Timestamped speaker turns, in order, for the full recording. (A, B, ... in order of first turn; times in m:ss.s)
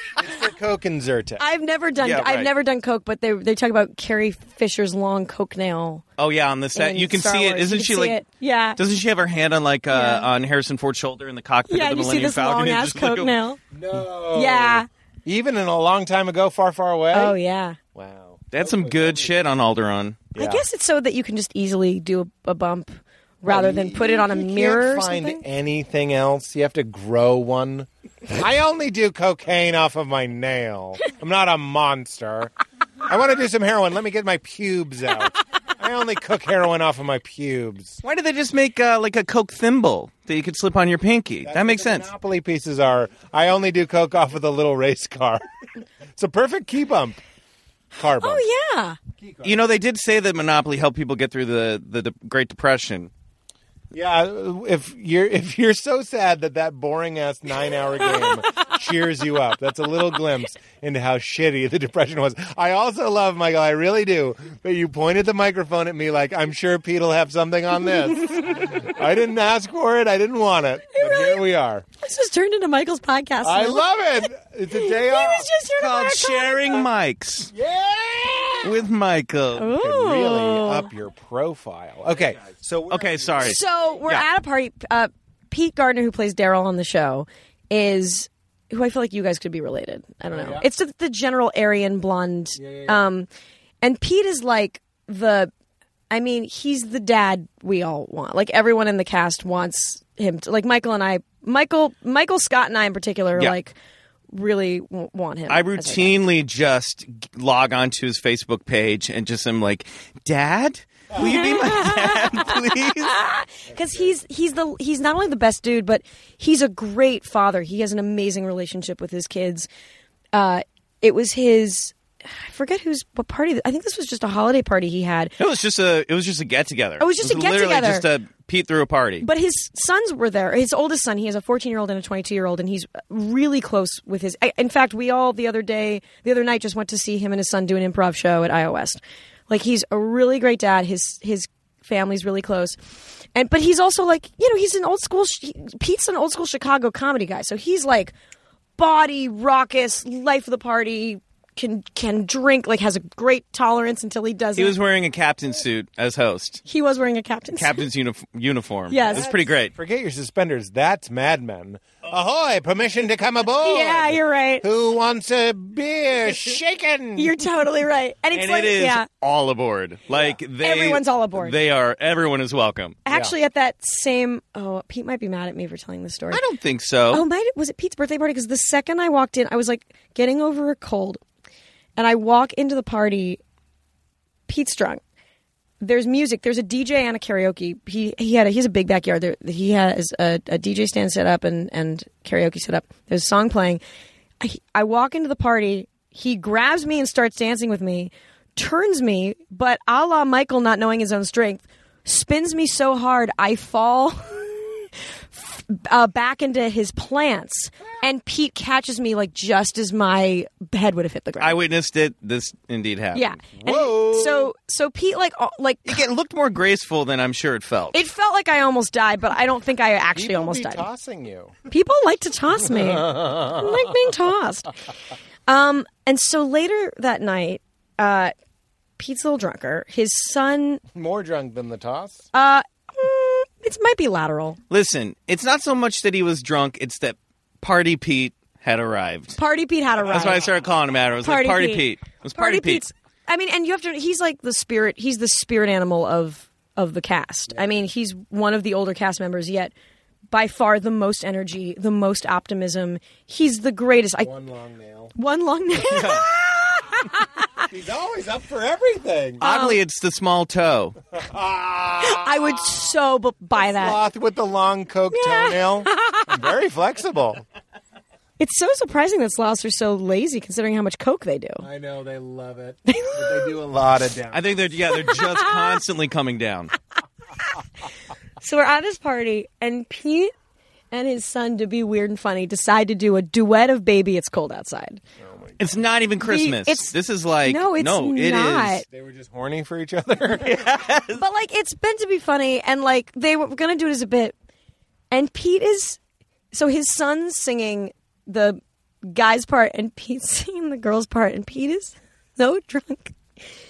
0:00.2-0:01.4 A
0:01.4-0:06.0 B
0:02.0-0:02.5 C
0:06.2-0:08.2 C
0:06.7-0:08.8 B
0:08.8-0:13.4 C
0:09.9-0:10.3 B
0:11.7-0:13.6 B
0:13.7-0:17.4 A
0:14.3-0:14.9 B
0:17.1-0:17.8 B
0:17.9-0:19.4 A
0:18.5-0:20.3 C
0:20.3-0:25.4 B
0:20.3-0:20.6 A
0:23.4-0:32.5 A
0:33.0-0:38.0 A
0:38.0-0:42.1 C
0:41.4-0:45.4 A
0:46.1-0:47.2 A
0:47.9-0:48.4 A
0:48.0-0:49.0 B
0:49.2-0:49.7 A
0:49.4-0:53.1 C
0:53.9-1:11.8 A
1:08.2-1:08.8 B
1:10.9-1:11.4 B
1:12.0-1:13.9 B
1:13.4-1:15.5 A
1:14.7-1:16.8 B
1:15.8-1:17.5 C
1:17.5-1:18.9 A
1:18.6-1:19.7 C
1:19.6-1:20.9 B
1:19.7-1:24.0 A
1:22.9-1:24.2 C
1:23.4-1:33.3 B
1:30.3-1:30.6 A
1:32.6-1:33.0 A
1:33.8-1:35.5 B
1:36.1-1:43.7 B
1:44.3-1:46.2 B
1:45.5-1:53.1 C
1:51.2-1:59.7 B
1:53.7-1:54.1 A
2:00.3-2:05.3 B
2:05.4-2:09.2 C
2:07.0-2:08.1 B
2:09.2-2:22.8 B
2:23.3-2:28.1 B
2:28.8-2:34.8 B
2:34.6-2:36.6 C
2:36.6-2:37.9 B
2:37.5-2:39.7 C
2:38.9-2:39.3 B
2:39.1-2:47.4 A
2:43.6-2:44.6 B
2:47.2-2:49.1 B
2:48.3-2:53.0 C
2:50.1-2:50.4 A
2:50.6-2:51.5 B
2:53.0-2:56.4 B
2:53.1-2:53.3 A
2:56.3-2:57.2 C
2:57.1-3:01.2 B
3:02.0-3:03.4 B
3:04.5-3:05.0 B
3:05.8-3:13.8 B
3:14.4-3:31.6 B
3:31.4-3:33.4 C
3:33.1-3:36.0 B
3:33.5-3:34.5 A
3:35.8-3:38.0 C
3:37.9-3:40.8 B
3:40.1-3:41.5 A
3:41.7-3:44.7 B
3:42.6-3:43.9 A
3:45.5-3:48.3 B
3:49.0-3:50.8 B
3:50.9-3:52.2 A
3:52.3-3:54.6 B
3:54.7-3:59.4 C
3:59.4-4:00.5 B
4:00.1-4:02.8 C
4:01.2-4:09.7 B
4:07.5-4:07.8 A
4:10.3-4:14.3 B
4:14.2-4:15.1 A
4:15.2-4:17.2 B
4:15.9-4:16.4 A
4:17.7-4:19.4 A
4:19.4-4:21.0 C
4:19.4-4:19.8 B
4:21.1-4:22.7 A
4:22.0-4:24.0 B
4:23.5-4:27.4 A
4:25.1-4:26.4 B
4:28.4-4:31.6 B
4:31.6-4:34.8 A
4:32.9-4:33.5 B
4:34.3-4:36.7 C
4:34.9-4:35.8 B
4:38.4-4:40.3 B
4:40.9-4:45.0 B
4:45.2-4:45.9 A
4:45.6-4:48.8 C
4:46.2-4:48.8 B
4:48.8-4:50.9 A
4:50.3-4:51.2 C
4:51.1-4:54.3 B
4:55.1-4:56.0 B
4:56.5-5:03.2 B